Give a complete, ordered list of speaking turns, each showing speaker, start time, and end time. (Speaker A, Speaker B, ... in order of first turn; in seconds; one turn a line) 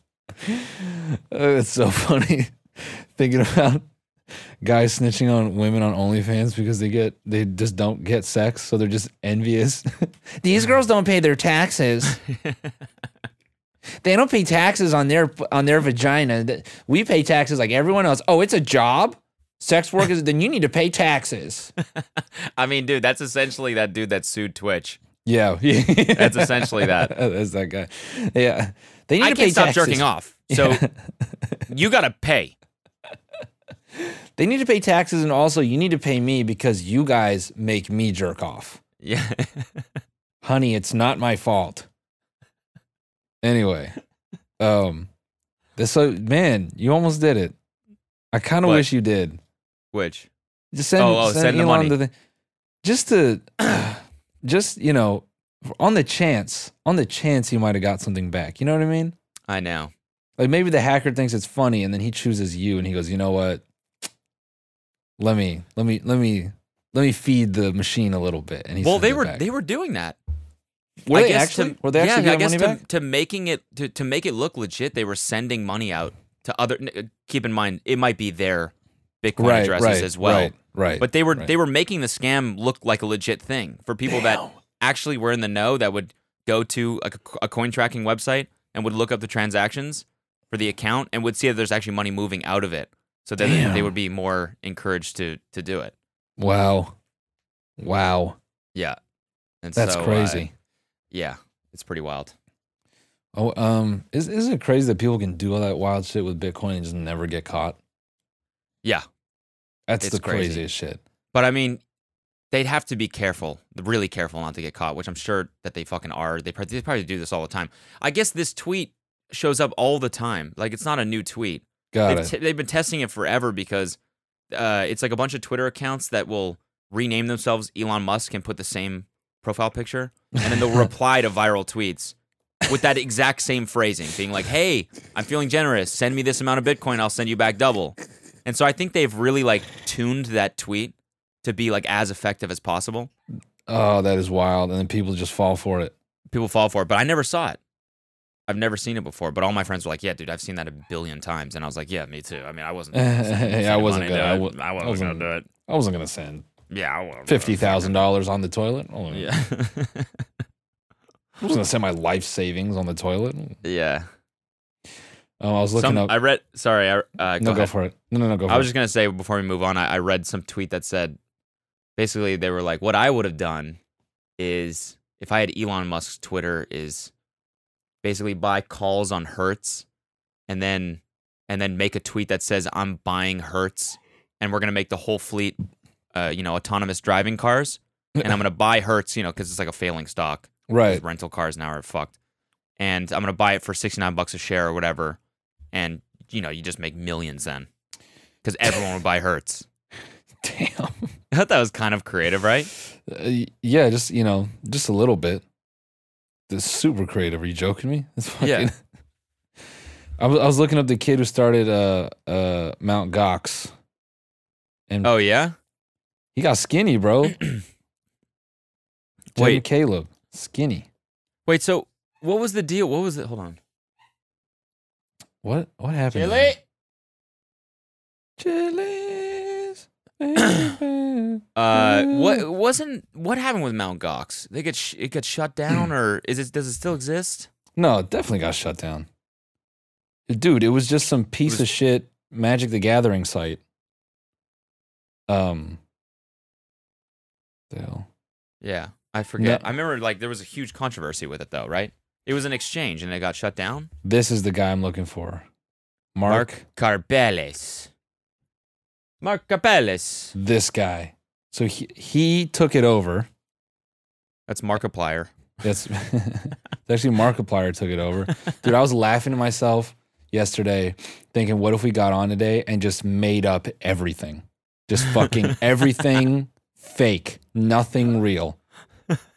Speaker A: 0.4-3.9
Speaker A: 4.6-12.2
Speaker B: 12.3-12.7
Speaker A: 14.0-21.7
Speaker B: 22.0-25.0
Speaker A: 25.2-31.6
Speaker B: 26.1-27.1
Speaker B: 29.2-30.9
Speaker B: 31.7-32.5
Speaker A: 34.0-38.8
Speaker B: 39.0-39.9
Speaker A: 40.4-41.9
Speaker A: 43.4-44.0
Speaker A: 44.6-45.1
Speaker A: 45.8-47.5
Speaker A: 48.3-49.4
Speaker B: 48.6-48.9
Speaker B: 49.9-50.3
Speaker A: 50.7-52.1
Speaker B: 51.0-52.0
Speaker A: 52.8-59.1
Speaker B: 59.5-59.9
Speaker A: 60.4-63.6
Speaker A: 65.2-69.5
Speaker B: 68.8-70.2
Speaker A: 71.0-72.8
Speaker B: 71.1-96.0
Speaker A: 79.4-81.5
Speaker A: 84.1-84.5
Speaker A: 93.4-94.0
Speaker A: 96.4-97.0
Speaker A: 97.8-98.4
Speaker B: 99.6-100.5
Speaker A: 99.8-100.5
Speaker B: 101.1-102.3
Speaker A: 103.3-107.8
Speaker A: 109.9-111.0
Speaker B: 110.0-110.7
Speaker B: 111.3-111.8
Speaker B: 112.5-124.0
Speaker A: 121.9-122.3
Speaker B: 124.5-132.2
Speaker A: 130.5-130.8
Speaker B: 132.7-143.1
Speaker A: 143.7-145.9
Speaker B: 146.3-147.6
Speaker B: 148.5-155.5
Speaker A: 152.9-156.5
Speaker B: 156.7-158.0
Speaker A: 157.3-159.3
Speaker B: 159.1-160.2
Speaker A: 161.4-163.6
Speaker B: 163.6-164.1
Speaker A: 165.4-166.2
Speaker B: 165.8-167.7
Speaker A: 167.4-168.7
Speaker B: 168.5-171.2
Speaker B: 172.0-173.8
Speaker B: 174.4-177.1
Speaker B: 178.0-179.8
Speaker B: 180.5-185.6
Speaker B: 186.1-192.2
Speaker A: 190.7-191.0
Speaker B: 192.8-195.2
Speaker B: 195.7-197.7
Speaker B: 198.4-199.7
Speaker A: 200.4-201.1
Speaker B: 201.3-202.7
Speaker A: 203.1-205.4
Speaker A: 206.5-208.7
Speaker B: 208.4-208.7
Speaker A: 210.2-213.7
Speaker B: 215.0-215.6
Speaker A: 216.3-217.4
Speaker B: 219.3-219.6
Speaker A: 219.4-220.9
Speaker B: 221.5-223.6
Speaker A: 225.4-226.6
Speaker B: 226.1-226.6
Speaker A: 228.4-232.4
Speaker B: 231.6-237.5
Speaker A: 237.8-239.1
Speaker A: 240.3-243.6
Speaker A: 245.3-245.8
Speaker A: 247.7-248.1
Speaker B: 248.6-253.9
Speaker A: 249.4-249.7
Speaker A: 254.0-255.5
Speaker A: 256.1-256.6
Speaker B: 256.3-257.9
Speaker B: 259.2-260.3
Speaker A: 260.4-263.3
Speaker B: 264.5-265.3
Speaker A: 265.6-278.6